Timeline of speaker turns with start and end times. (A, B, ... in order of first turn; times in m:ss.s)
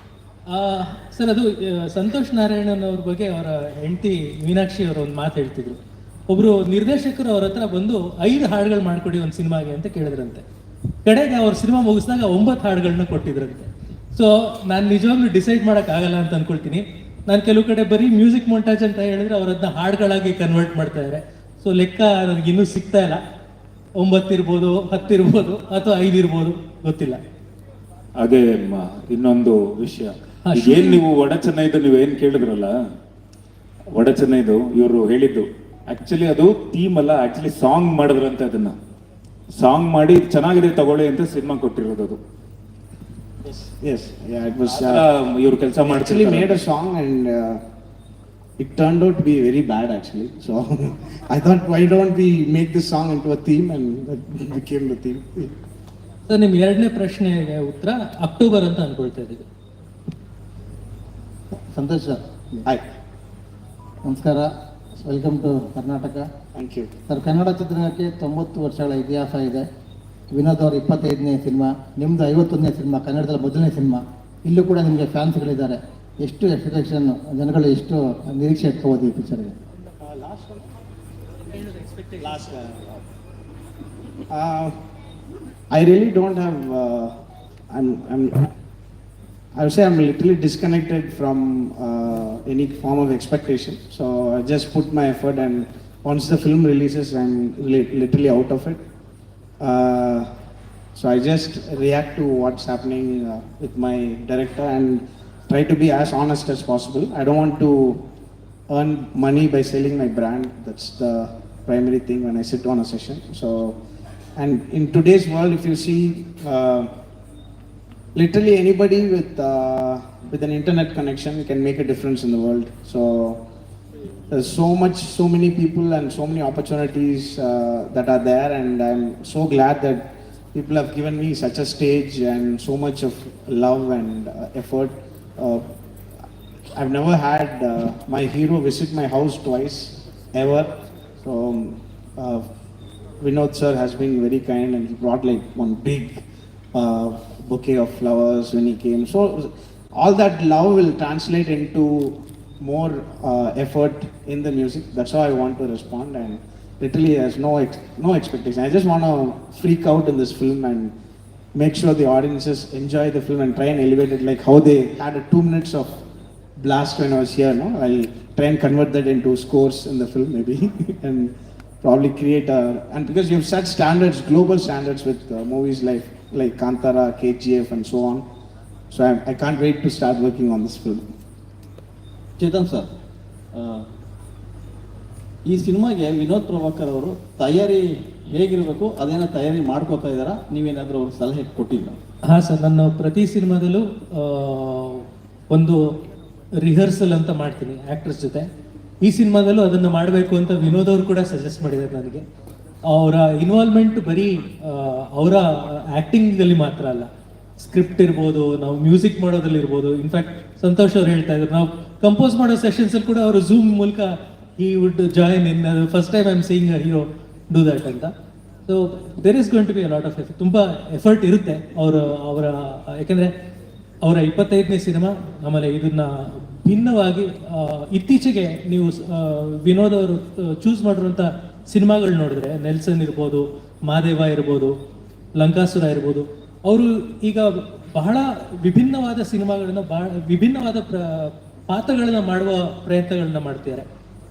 0:00.5-0:10.4 A
0:11.0-0:23.2 A
0:24.0-0:27.2 A
0:28.2-0:32.7 B
0:30.5-0:31.0 A
0:33.9-0:38.8 B
0:39.6-0:42.2 B
0:43.7-0:45.0 C
0:44.7-0:46.6 B
0:45.8-0:47.6 C
0:48.6-0:55.5 C
0:56.3-0:59.4 A
1:01.7-1:02.7 D
1:04.0-1:04.5 D
1:05.0-1:06.2 D
1:06.5-1:06.9 C
1:07.1-1:09.6 D
1:10.3-1:19.6 D
1:20.0-1:20.6 C
1:21.6-1:22.1 A
1:22.2-1:23.0 C
1:24.3-1:24.8 C
1:25.7-1:27.2 C
1:27.7-1:28.4 C
1:29.5-1:38.8 C
1:39.6-1:40.3 C
1:41.0-1:48.0 C
1:48.7-1:53.8 C
1:54.3-1:56.9 C
1:58.2-2:03.4 C
2:04.3-2:10.0 C
2:10.5-2:15.6 C
2:16.7-2:22.4 C
2:23.2-2:40.9 C
2:41.5-2:46.0 C
2:46.6-2:58.2 C
2:58.9-3:01.1 C
3:02.4-3:02.9 E
3:03.5-3:03.8 E
3:05.4-3:12.0 E
3:12.3-3:15.8 A
3:16.6-3:18.5 A
3:19.0-3:22.2 A
3:22.9-3:38.1 A
3:38.7-3:43.3 A
3:44.0-3:54.8 A
3:55.4-4:03.8 A